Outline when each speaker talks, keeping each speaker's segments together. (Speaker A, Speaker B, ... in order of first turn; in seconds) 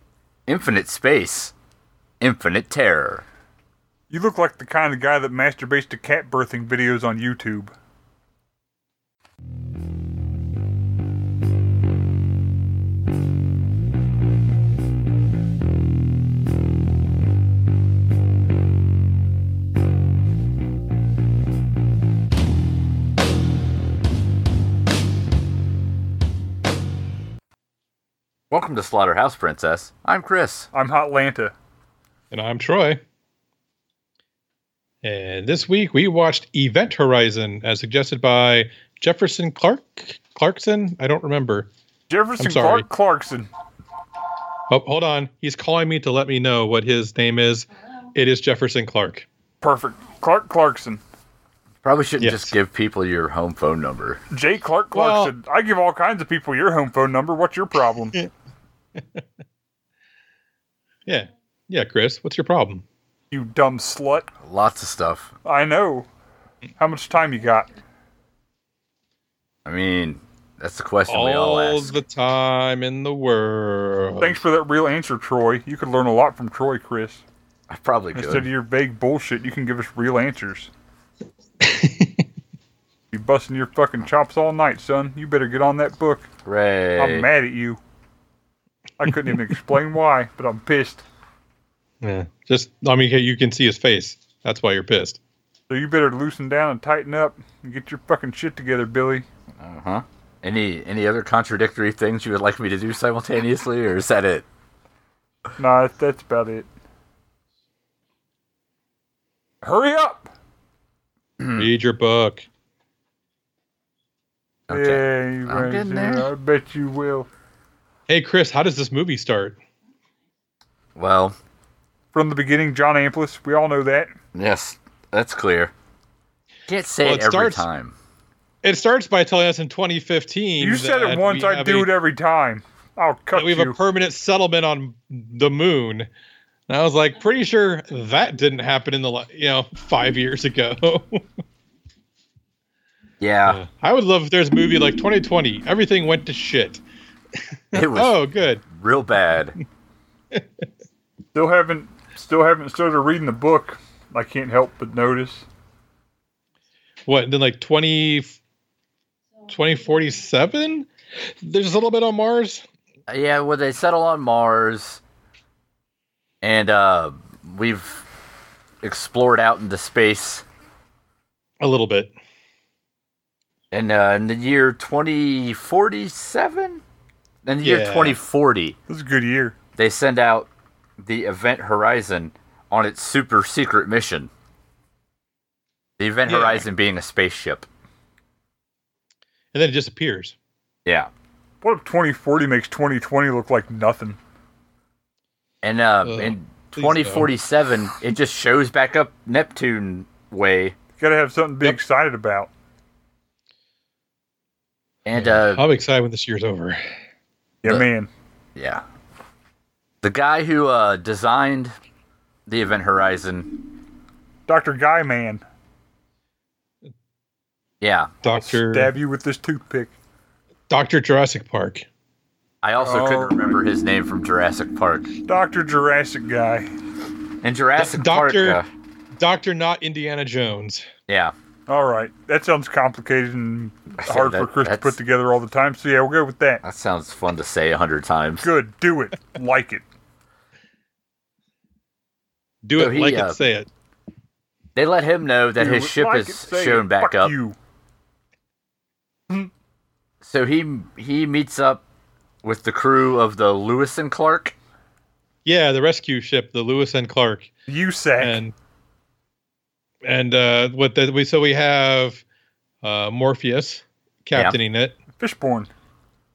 Speaker A: 0.5-1.5, 2.2-3.2, 28.5-30.7, 51.8-54.2, 64.4-65.3, 69.7-71.9, 77.7-78.5, 86.5-87.3, 99.6-104.5, 111.4-111.7, 114.7-116.3, 121.0-121.4, 124.3-125.7, 126.7-128.0, 143.2-143.6, 147.7-148.2, 148.7-149.5, 163.1-165.0, 166.4-168.1, 168.8-170.4, 173.7-176.8, 177.4-178.8, 179.8-180.5, 181.0-184.3, 186.0-187.7, 195.6-200.8, 205.0-205.6, 208.6-208.8, 210.0-211.7, 212.5-213.6, 217.8-218.2, 222.6-225.1, 227.4-228.7, 231.1-231.3, 234.0-234.9, 236.6-238.5, 242.8-243.3, 244.8-247.3, 250.2-251.8, 252.4-254.6
Speaker B: 4.1-7.7, 30.7-31.5, 42.1-43.5, 49.6-51.0, 54.3-58.2, 63.3-64.3, 65.4-66.1, 66.8-67.7, 74.2-77.2, 78.2-80.7, 83.1-86.3, 87.0-87.8, 89.0-91.0, 95.7-99.3, 105.6-106.7, 109.6-110.3, 114.7-117.3, 122.1-124.1, 130.6-133.8, 151.3-155.5, 178.9-179.5, 191.6-194.2, 201.0-202.5, 207.6-208.1, 214.5-215.4, 218.3-219.9, 222.8-223.6, 225.2-226.7, 231.7-236.6, 238.4-239.8, 245.6-247.6, 257.7-258.4, 265.2-265.7
Speaker C: 32.3-33.0, 35.0-41.7, 42.4-42.9, 44.7-49.3, 52.2-52.5, 54.9-55.3, 59.0-59.2, 61.1-62.8, 71.1-74.4, 81.6-82.2, 92.0-95.2, 111.6-112.5, 118.1-119.6, 127.0-127.7, 128.6-131.9, 133.3-136.1, 136.7-141.2, 143.5-146.8, 147.4-148.6, 150.3-150.7, 157.1-158.4, 159.5-162.6, 171.6-172.1, 177.6-178.2, 186.3-186.6, 189.5-190.3, 196.0-197.3, 205.2-206.8, 218.2-218.9, 220.7-221.8, 227.8-228.6, 229.2-230.9, 242.6-243.7, 255.4-257.5, 258.2-258.5, 260.0-262.2, 262.8-264.9